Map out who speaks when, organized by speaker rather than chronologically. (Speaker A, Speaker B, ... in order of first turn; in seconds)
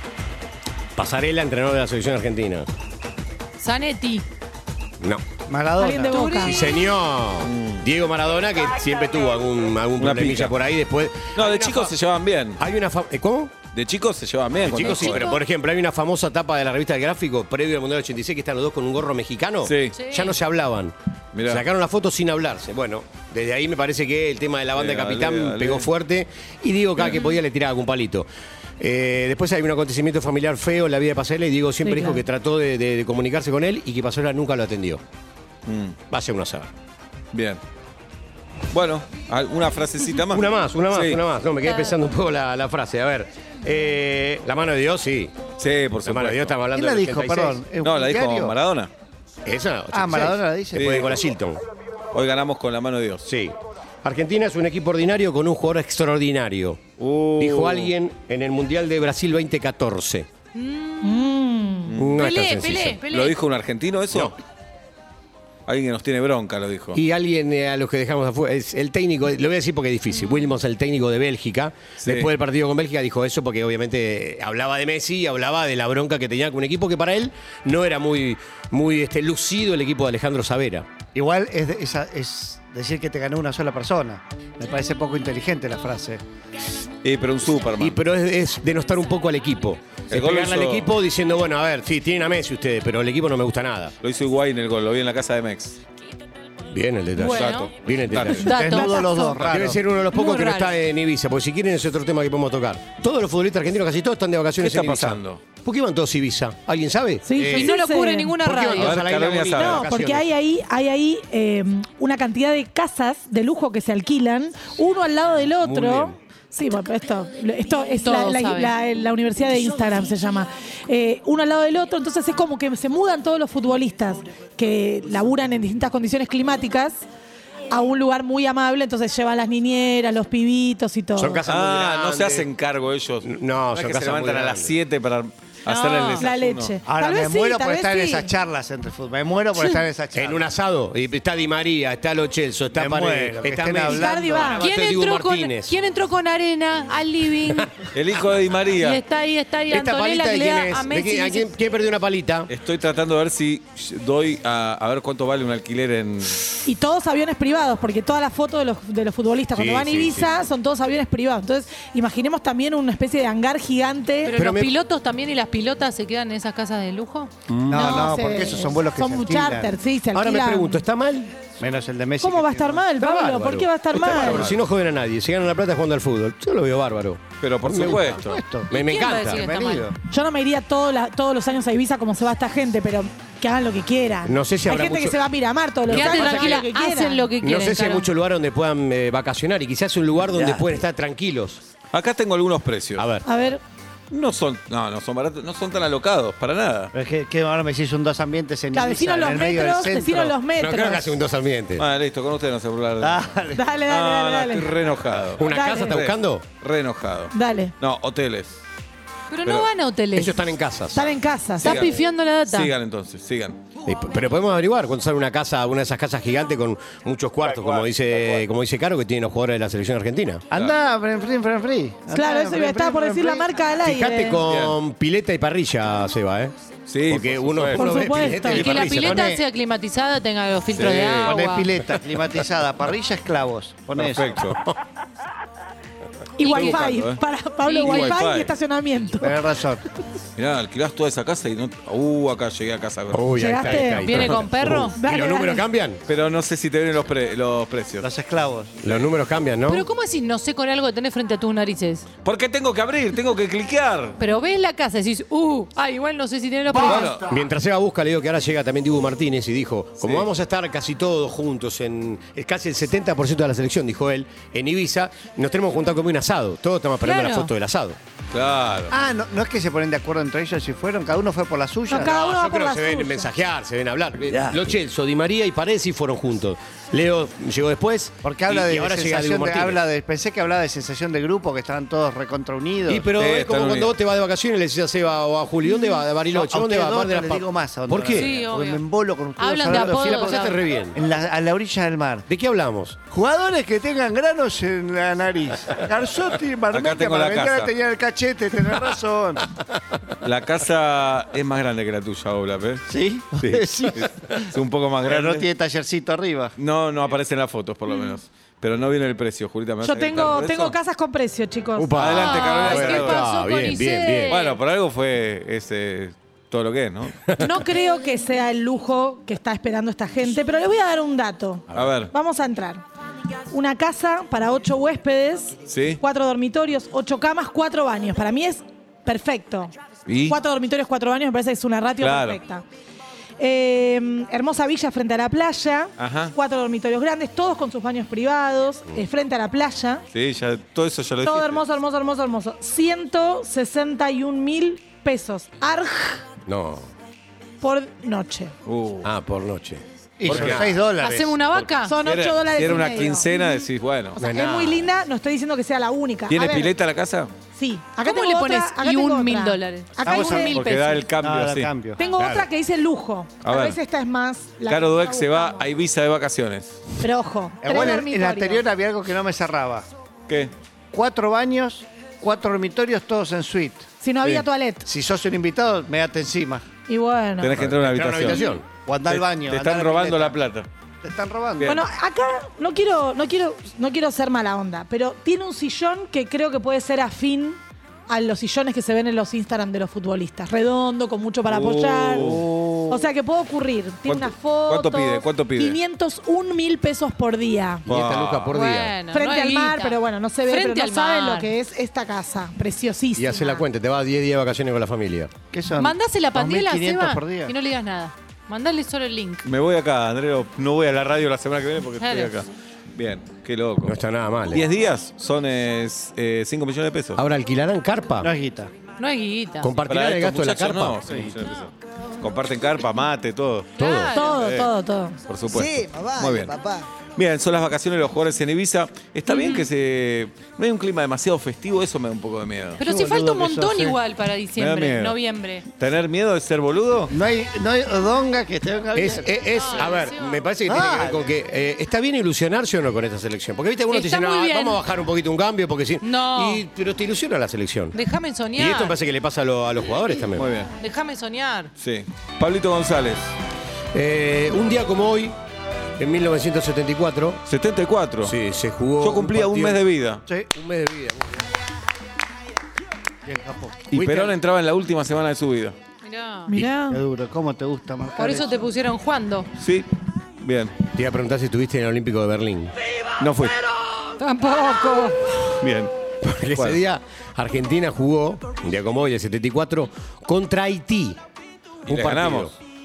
Speaker A: 0.9-2.7, 6.4-11.9, 12.6-13.5, 14.6-28.3, 28.8-35.0, 36.1-36.7, 40.3-45.3, 46.0-47.6, 49.4-51.6, 53.2-60.3, 61.9-63.0, 66.9-80.9, 87.8-93.9, 96.7-98.5, 99.4-107.6, 108.4-110.3, 115.6-116.2, 131.2-132.5, 133.2-134.8, 140.1-145.8, 149.7-152.5, 159.5-160.4, 164.4-164.7, 167.5-168.1, 170.1-171.3, 173.0-179.4, 184.2-185.2, 185.9-186.7, 187.4-191.6, 193.0-193.2, 200.6-201.8, 205.3-206.4, 210.1-211.2, 213.8-220.4, 223.8-226.5, 227.0-229.3, 243.1-246.0, 248.8-249.8, 257.1-268.0, 271.9-279.8, 282.9-288.4, 289.7-291.0, 292.2-293.0, 311.8-314.4, 317.2-317.6, 346.4-346.9, 349.0-350.8, 354.2-354.9, 362.1-362.4, 377.6-378.6, 397.9-398.9, 403.1-405.3, 413.8-414.7, 417.1-418.3, 419.6-421.0, 423.8-424.1, 438.9-447.9, 448.6-450.5, 453.9-455.4, 456.0-457.4, 458.2-459.8, 460.5-461.4, 463.9-464.3, 470.9-472.7, 476.2-481.2, 481.9-482.5
Speaker B: 3.6-4.2, 6.1-6.9, 14.9-15.2, 19.9-20.4, 60.5-61.4, 62.2-63.4, 97.2-97.7, 98.5-99.0, 100.1-100.8, 107.5-109.0, 118.0-118.7, 135.7-136.2, 144.6-147.7, 148.8-151.5, 164.2-167.3, 178.7-179.9, 185.9-188.1, 209.3-210.4, 211.6-212.7, 228.5-231.8, 236.5-236.7, 237.7-238.2, 243.9-244.9, 249.7-252.1, 254.2-257.2, 267.0-267.5, 288.1-288.8, 289.4-290.5, 312.1-314.6, 350.9-352.0, 358.0-360.3, 398.5-401.5, 405.7-409.4, 412.0-412.4, 419.0-419.7, 423.8-424.4, 429.3-429.7, 432.8-435.6, 439.5-440.5, 443.9-444.8, 446.0-446.6, 447.9-449.0, 450.8-451.7, 466.0-466.6, 468.1-469.5, 474.2-475.4
Speaker C: 5.5-6.3, 46.7-48.5, 49.9-51.1, 81.1-86.2, 98.5-99.8, 136.8-140.4, 142.7-144.6, 167.7-169.7, 171.6-172.8, 178.2-179.9, 190.4-190.6, 196.9-200.3, 203.0-203.6, 220.5-223.5, 228.5-229.4, 231.0-234.4, 236.5-236.9, 239.2-239.8, 248.0-248.8, 256.8-257.0, 268.9-272.2, 274.3-274.6, 278.2-283.1, 285.8-292.2, 293.1-299.4, 302.9-304.5, 305.0-306.5, 350.2-351.4, 360.0-362.0, 367.6-369.9, 370.9-373.9, 374.9-376.6, 378.9-380.4, 381.0-381.8, 392.1-393.1, 405.5-407.5, 418.2-418.7, 425.5-426.8, 432.8-434.0, 437.1-440.0, 440.7-441.3, 463.2-463.8, 466.9-468.7
Speaker D: 5.8-6.7, 31.8-32.2, 61.0-61.9, 98.5-99.5, 107.2-108.4, 109.5-127.0, 127.7-131.4, 136.2-138.3, 143.9-144.7, 156.6-164.4, 167.7-170.8, 172.2-174.5, 180.1-187.3, 193.2-193.6, 198.7-201.1, 203.5-204.8, 205.4-206.1, 207.3-207.7, 210.9-211.9, 222.1-224.4, 227.7-228.8, 236.4-239.4, 243.3-244.2, 244.9-245.7, 271.9-273.3, 309.8-312.0, 317.4-322.8, 323.5-329.7, 330.2-332.6, 333.4-340.0, 341.2-346.2, 347.6-348.5, 351.9-353.6, 354.2-356.7, 357.5-361.1, 362.0-365.7, 367.0-368.6, 374.0-374.9, 376.9-377.6, 378.2-378.6, 381.6-392.4, 392.9-397.8, 399.1-403.6, 424.1-425.1, 466.5-467.0
Speaker E: 7.4-7.8, 10.0-10.6, 11.3-12.6, 13.7-15.3, 19.6-20.0, 21.3-21.6, 24.8-25.9, 35.6-36.0, 37.3-37.6, 38.7-41.2, 45.6-46.5, 47.8-48.9, 50.7-51.2, 52.1-53.2, 57.0-57.9, 61.9-62.2, 63.1-64.4, 65.7-67.0, 72.0-72.3, 87.0-88.0, 90.1-90.9, 94.0-95.8, 97.2-98.5, 104.6-105.4, 108.7-109.9, 131.4-136.7, 147.9-149.0, 152.5-156.6, 174.0-174.6, 177.4-178.4, 191.9-193.0, 194.1-196.9, 201.8-208.6, 211.6-213.6, 217.5-217.9, 224.5-224.8, 226.9-228.2, 230.7-231.4, 233.9-234.6, 236.4-237.2, 237.8-238.5, 240.3-243.9, 246.1-248.1, 252.2-254.2, 256.8-257.2, 260.0-260.2, 268.3-268.9, 283.2-284.0, 296.7-297.7, 300.2-305.4, 306.6-310.8, 311.9-313.3, 314.3-317.2, 321.7-322.1, 325.7-326.0, 330.1-330.4, 332.0-332.4, 336.0-336.3, 340.1-341.6, 348.6-349.1, 350.3-350.9, 351.5-354.2, 356.3-357.3, 360.2-361.7, 363.4-363.8, 364.7-366.8, 377.4-378.4, 379.1-380.7, 381.6-381.8, 391.4-392.6, 394.1-395.8, 397.9-398.6, 409.4-413.9, 414.5-417.2, 419.9-424.7, 425.3-426.6, 427.1-432.8, 434.6-435.2, 435.7-437.1, 450.3-450.7, 451.8-453.3, 457.5-458.3, 459.0-460.2, 463.9-465.8, 469.6-470.7, 473.2-473.6, 475.6-475.9, 481.9-482.5